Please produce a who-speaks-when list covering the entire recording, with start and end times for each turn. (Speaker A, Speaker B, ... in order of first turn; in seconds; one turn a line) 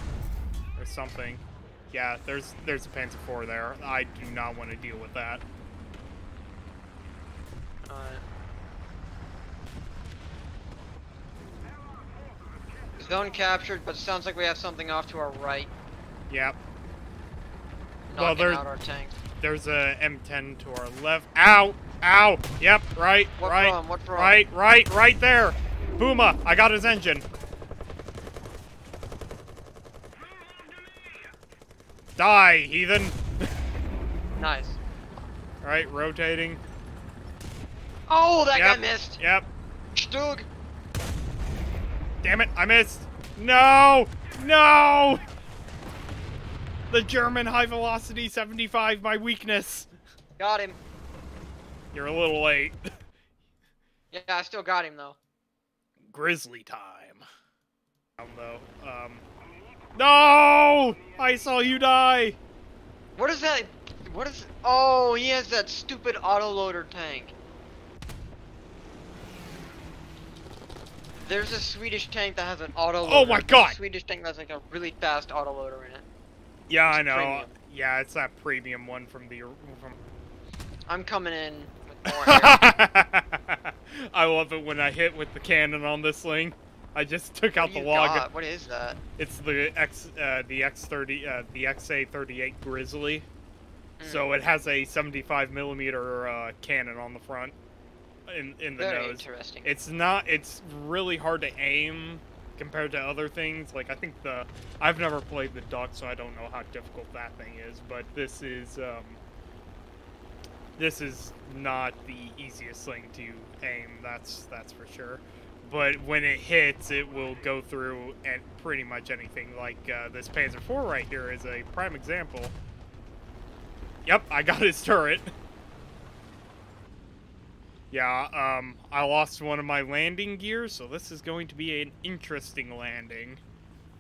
Speaker A: 0.8-5.4
Speaker B: 7.8-8.2
Speaker B: 13.0-15.7
Speaker A: 16.3-16.6
Speaker B: 18.1-19.1
Speaker A: 18.1-18.6
Speaker A: 19.4-27.2
Speaker B: 23.4-24.5
Speaker A: 32.1-33.2
Speaker B: 34.4-34.8
Speaker A: 35.6-36.6
Speaker B: 38.1-39.2
Speaker A: 38.5-39.5
Speaker B: 39.9-40.5
Speaker A: 42.2-45.2
Speaker A: 46.9-49.9
Speaker B: 50.4-50.8
Speaker A: 51.9-52.8
Speaker B: 54.1-55.2
Speaker A: 56.1-57.2
Speaker A: 58.2-59.2
Speaker A: 60.0-62.4
Speaker B: 63.1-67.3
Speaker B: 71.2-76.0
Speaker A: 73.0-73.8
Speaker A: 76.7-79.9
Speaker B: 76.9-77.5
Speaker B: 80.9-82.6
Speaker A: 82.1-88.3
Speaker B: 87.5-89.0
Speaker A: 89.2-93.2
Speaker B: 94.0-94.3
Speaker A: 94.0-97.5
Speaker A: 98.3-109.2
Speaker B: 98.8-99.7
Speaker A: 110.8-122.5
Speaker A: 124.0-125.3
Speaker A: 127.9-133.4